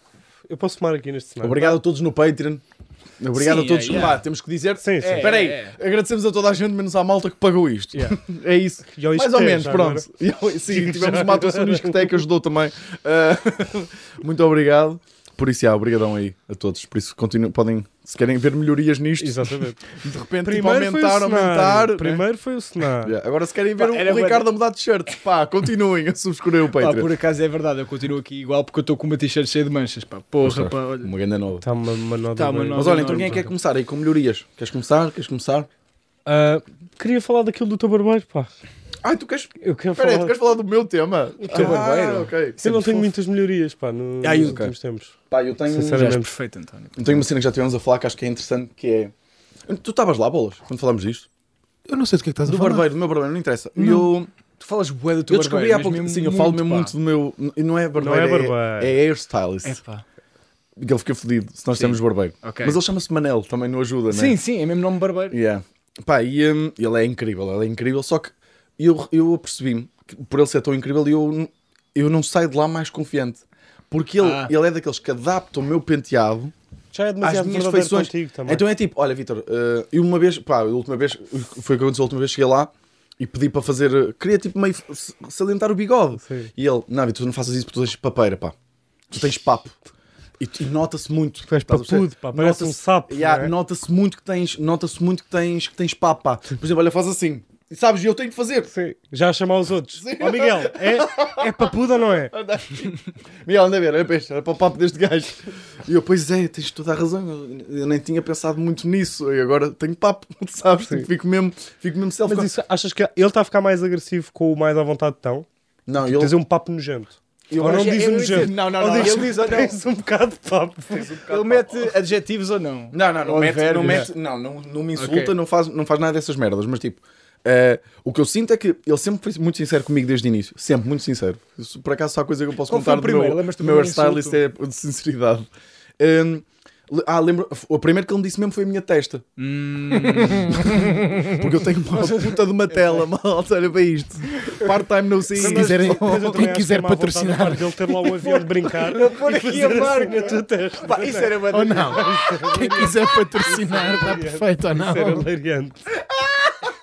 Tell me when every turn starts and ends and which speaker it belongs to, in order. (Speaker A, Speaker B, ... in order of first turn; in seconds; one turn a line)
Speaker A: 0.5-1.8
Speaker B: 1.4-2.6
Speaker B: 3.2-22.2
Speaker C: 3.3-4.2
Speaker A: 4.8-5.4
Speaker C: 5.0-5.8
Speaker A: 8.9-10.1
Speaker A: 10.7-12.2
Speaker A: 19.2-19.8
Speaker A: 20.4-23.1
Speaker B: 23.0-27.1
Speaker C: 23.8-24.5
Speaker C: 26.8-31.1
Speaker B: 30.4-31.6
Speaker A: 31.6-33.5
Speaker C: 32.4-33.5
Speaker B: 32.7-35.7
Speaker A: 36.3-38.5
Speaker B: 39.0-42.6
Speaker A: 39.6-40.4
Speaker A: 41.4-45.1
Speaker C: 41.5-43.0
Speaker C: 44.2-44.6
Speaker B: 44.4-44.7
Speaker B: 45.3-46.1
Speaker A: 45.7-46.3
Speaker C: 45.9-47.2
Speaker B: 47.0-49.1
Speaker B: 49.7-51.3
Speaker D: 51.9-52.9
Speaker B: 52.5-54.3
Speaker D: 53.8-54.1
Speaker C: 54.6-56.9
Speaker B: 55.3-59.8
Speaker A: 58.0-59.0
Speaker C: 59.6-60.0
Speaker B: 60.8-64.4
Speaker C: 61.7-62.8
Speaker C: 64.1-65.4
Speaker B: 65.3-76.5
Speaker C: 74.2-74.5
Speaker A: 76.9-78.6
Speaker B: 77.2-88.5
Speaker A: 86.2-86.5
Speaker B: 89.1-89.8
Speaker B: 90.4-98.7
Speaker A: 91.5-93.5
Speaker A: 98.7-102.3
Speaker B: 100.0-101.7
Speaker B: 102.3-112.5
Speaker A: 112.3-115.5
Speaker B: 115.9-116.3
Speaker A: 116.1-121.1
Speaker B: 117.5-119.6
Speaker C: 117.7-119.8
Speaker B: 120.9-121.9
Speaker C: 121.3-124.1
Speaker B: 122.9-135.5
Speaker C: 125.0-125.3
Speaker C: 132.7-134.4
Speaker B: 136.0-139.3
Speaker C: 139.4-140.9
Speaker D: 140.4-141.3
Speaker B: 140.5-146.4
Speaker C: 141.9-143.1
Speaker C: 144.3-144.8
Speaker A: 145.4-155.8
Speaker D: 145.4-147.8
Speaker C: 148.2-152.9
Speaker D: 151.5-155.3